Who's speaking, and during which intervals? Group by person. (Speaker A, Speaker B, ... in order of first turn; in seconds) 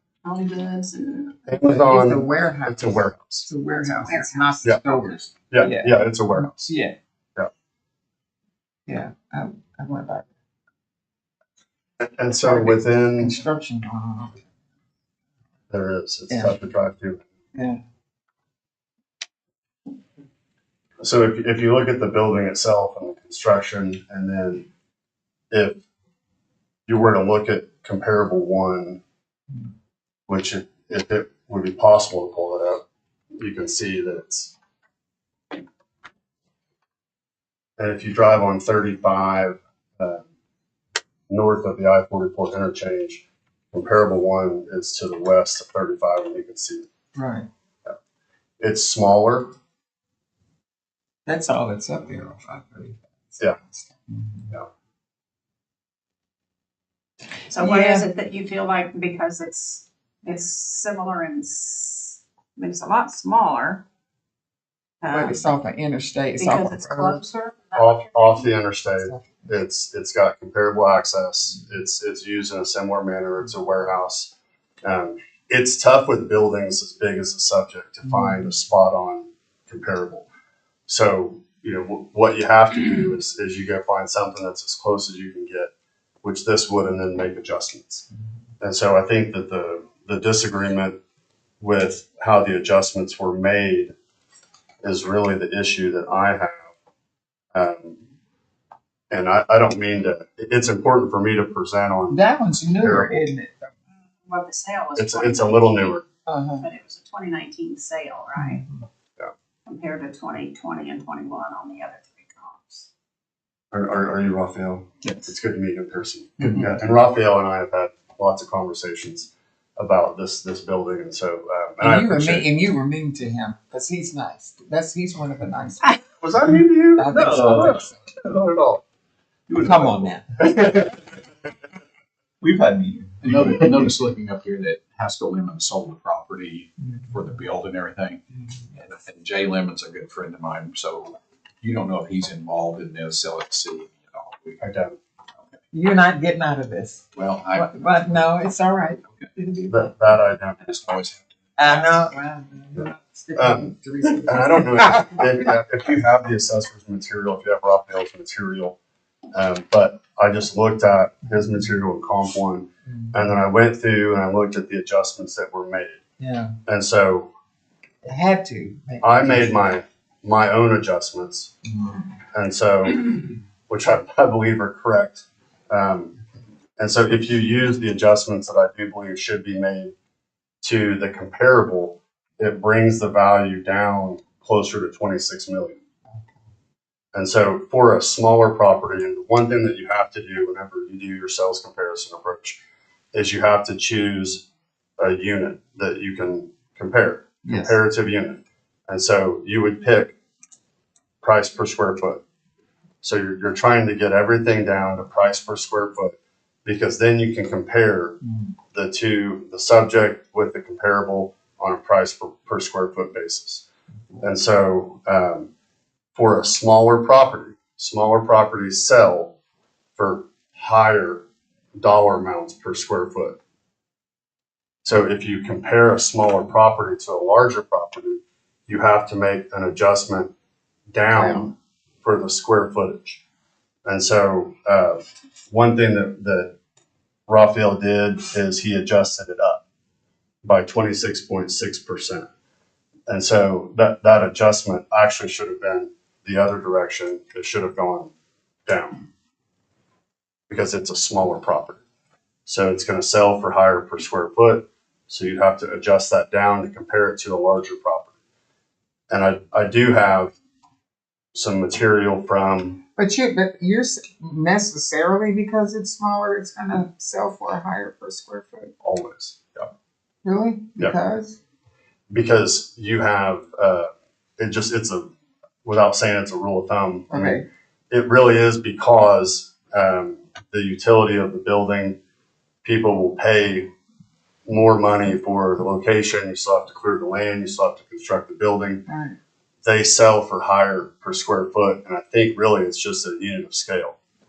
Speaker A: 0.2-1.4, 3.7-5.2, 57.5-63.9, 65.0-65.5, 66.4-68.5, 104.3-106.1, 106.6-108.6, 109.7-112.9
Speaker B: 1.5-3.5, 5.5-6.7, 12.1-13.4, 15.7-17.2, 21.0-24.7, 25.5-25.8, 26.9-29.0, 30.3-32.8, 33.4-34.5, 37.8-40.2, 41.3-46.9, 48.6-49.5, 67.8-80.3, 80.9-85.7, 86.2-88.1, 88.6-91.0, 91.6-93.9, 94.8-96.7, 97.5-98.0, 99.1-103.3, 105.0-106.0, 113.7-122.5, 126.1-128.8, 144.6-145.0, 149.7-150.8, 152.8-153.7, 154.2-158.8, 159.3-166.0, 166.7-167.3, 169.0-171.5, 172.3-176.2, 176.8-179.9, 180.6-185.8, 187.1-192.6, 193.1-194.4, 195.0-200.1, 201.2-202.2, 203.0-208.2, 208.7-213.7, 214.2-215.5, 216.2-219.3, 220.0-221.2, 221.8-223.4, 224.8-230.3, 230.9-233.2, 233.9-236.6, 237.3-239.6, 240.4-242.3, 243.1-248.1, 248.7-249.1, 250.5-251.8, 252.5-258.1, 259.1-260.3, 261.3-262.8, 268.8-269.7, 272.1-275.1, 275.6-282.0, 282.6-283.7, 284.5-288.9, 289.6-294.0
Speaker C: 1.5-7.0, 8.9-10.3, 12.4-14.4, 16.3-16.6, 17.6-17.8, 47.1-47.5, 51.3-54.5, 57.6-58.1, 65.1-67.2, 68.9-69.6, 78.1-78.4, 102.1-103.7, 106.3-106.7, 108.4-108.7, 115.0-115.3, 116.4-116.8, 121.8-126.0, 127.0-128.0, 129.6-130.9, 132.4-133.8, 145.7-150.2, 151.6-155.5, 162.9-163.3, 166.2-166.6, 168.0-169.7, 171.7-172.1, 197.4-197.8, 231.1-231.5, 263.0-268.7, 270.2-271.4, 277.1-277.4, 288.9-289.2
Speaker D: 127.2-127.6, 129.5-130.2, 132.4-138.2, 138.7-144.6, 147.1-148.3, 150.6-152.0